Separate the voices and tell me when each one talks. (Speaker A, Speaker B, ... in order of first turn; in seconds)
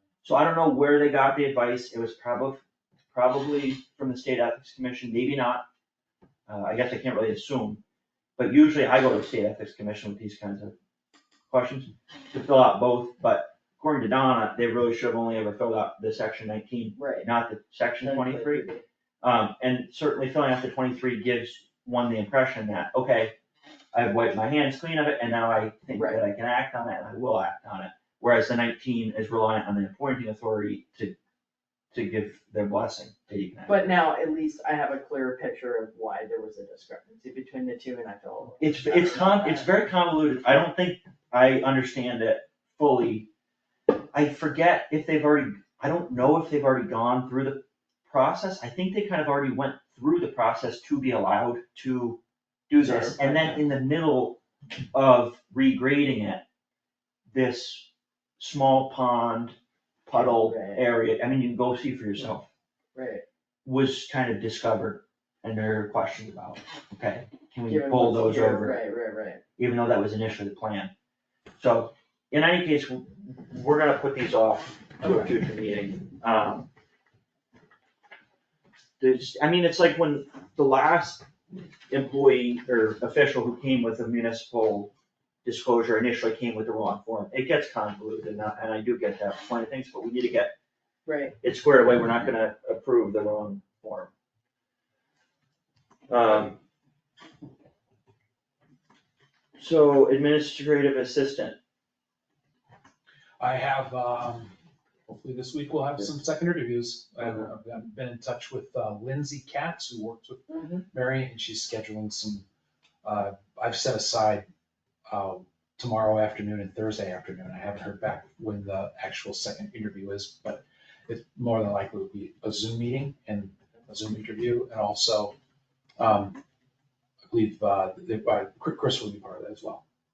Speaker A: 0.2-5.7, 6.5-7.8, 8.4-10.7, 11.5-18.6, 19.2-23.3, 23.9-31.1, 31.9-33.9, 38.6-43.3, 44.1-54.4, 54.9-56.4, 57.3-62.5, 63.6-68.8, 69.6-70.9, 71.6-76.7, 79.0-81.3, 81.9-84.9, 85.4-90.5, 91.4-94.1, 96.1-96.6, 99.6-101.5
Speaker B: 16.9-17.3, 18.0-18.8, 25.9-26.2, 33.6-39.7, 52.8-53.6, 60.1-60.8, 62.9-63.2, 67.7-69.4, 75.0-75.3, 91.0-91.3, 110.5-110.8
Speaker C: 103.4-104.5, 105.1-112.4, 113.0-114.5, 115.1-125.3, 126.0-126.4, 127.3-129.8